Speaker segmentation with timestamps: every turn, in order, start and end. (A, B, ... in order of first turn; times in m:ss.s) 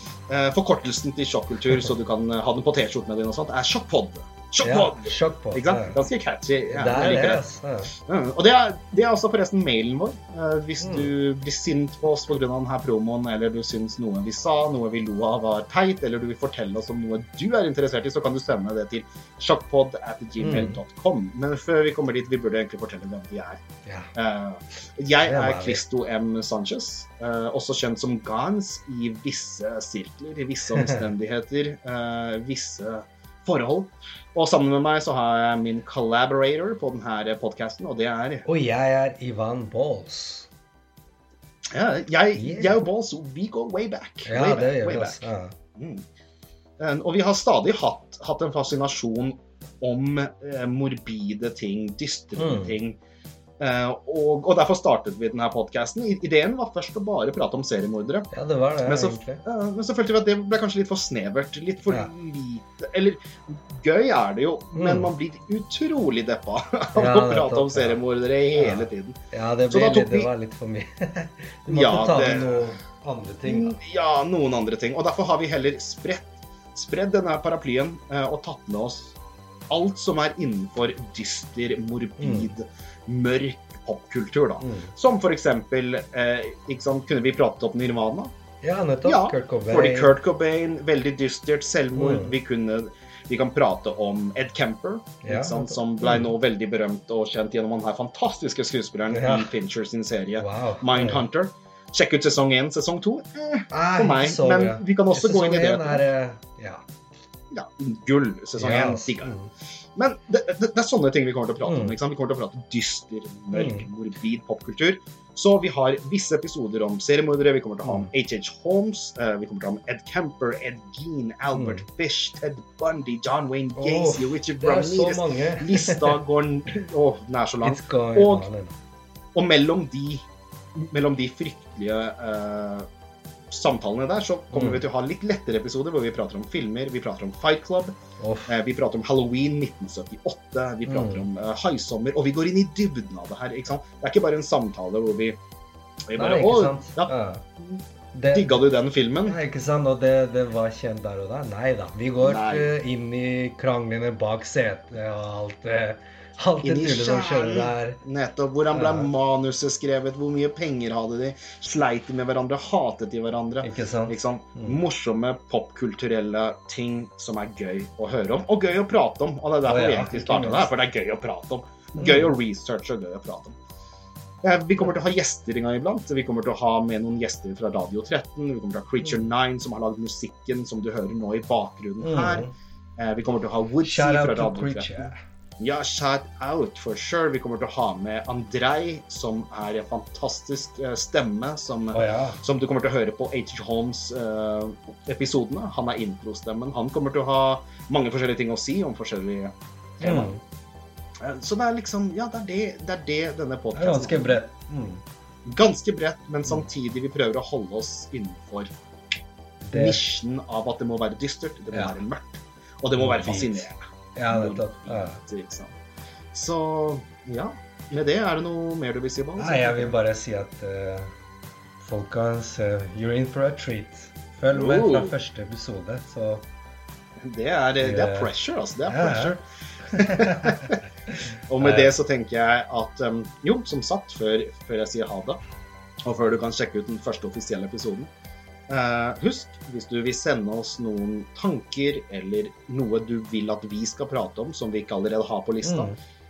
0:00.3-0:07.4 A
0:04.6-0:06.0 B
0:06.7-0:07.9 B
0:08.0-0:23.6 A
0:10.8-0:11.1 B
0:20.4-0:20.8 B
0:23.8-0:24.1 B
0:24.1-0:38.4 A
0:25.2-0:25.8 B
0:38.4-0:40.5 B
0:41.7-0:46.0 A
0:42.4-0:42.8 B
0:44.2-0:45.5 B
0:46.8-0:53.0 A
0:52.4-0:52.7 B
0:53.6-0:58.3 A
0:58.3-0:59.4 B
0:58.8-1:09.2 A
1:04.7-1:05.1 B
1:06.9-1:08.0 B
1:08.5-1:13.8 B
1:09.7-1:10.3 A
1:11.7-1:12.7 A
1:13.4-1:19.2 A
1:19.7-1:28.3 A
1:22.2-1:22.5 B
1:24.6-1:24.9 B
1:28.6-1:30.2 B
1:29.0-1:46.0 A
1:31.9-1:32.4 B
1:35.2-1:36.3 B
1:39.1-1:39.5 B
1:40.4-1:41.2 B
1:43.7-1:46.8 B
1:47.5-1:49.3 A
1:48.6-1:49.5 B
1:50.0-2:08.5 A
1:51.6-1:51.9 B
1:53.5-1:53.9 B
1:57.8-1:58.1 B
2:01.5-2:01.8 B
2:03.8-2:06.2 B
2:07.6-2:08.7 B
2:09.3-2:12.9 A
2:13.5-2:17.9 A
2:14.5-2:14.8 B
2:18.2-2:18.6 B
2:18.4-2:25.4 A
2:20.8-2:21.2 B
2:26.1-2:29.4 A
2:26.1-2:27.4 B
2:28.1-2:28.6 B
2:29.2-2:38.0 B
2:32.2-2:32.7 A
2:36.6-2:53.6 A
2:38.7-2:39.1 B
2:43.6-2:44.8 B
2:49.6-2:50.7 B
2:52.0-2:52.3 B
2:54.4-3:20.3 A
3:02.0-3:02.5 B
3:03.8-3:05.1 B
3:11.9-3:12.4 B
3:20.0-3:20.4 B
3:21.2-3:24.4 A
3:23.7-3:25.0 B
3:25.4-3:28.8 A
3:29.6-3:30.0 B
3:29.7-3:35.8 A
3:33.0-3:35.2 B
3:36.3-3:40.0 A
3:39.4-3:41.1 B
3:41.8-3:46.4 B
3:44.5-3:45.1 A
3:47.2-3:50.8 A
3:47.8-3:48.3 B
3:48.8-3:49.3 B
3:49.9-3:50.8 B
3:51.5-3:55.4 A
3:51.6-3:51.9 B
3:56.0-3:58.1 A
3:58.7-4:05.9 A
4:05.6-4:06.0 B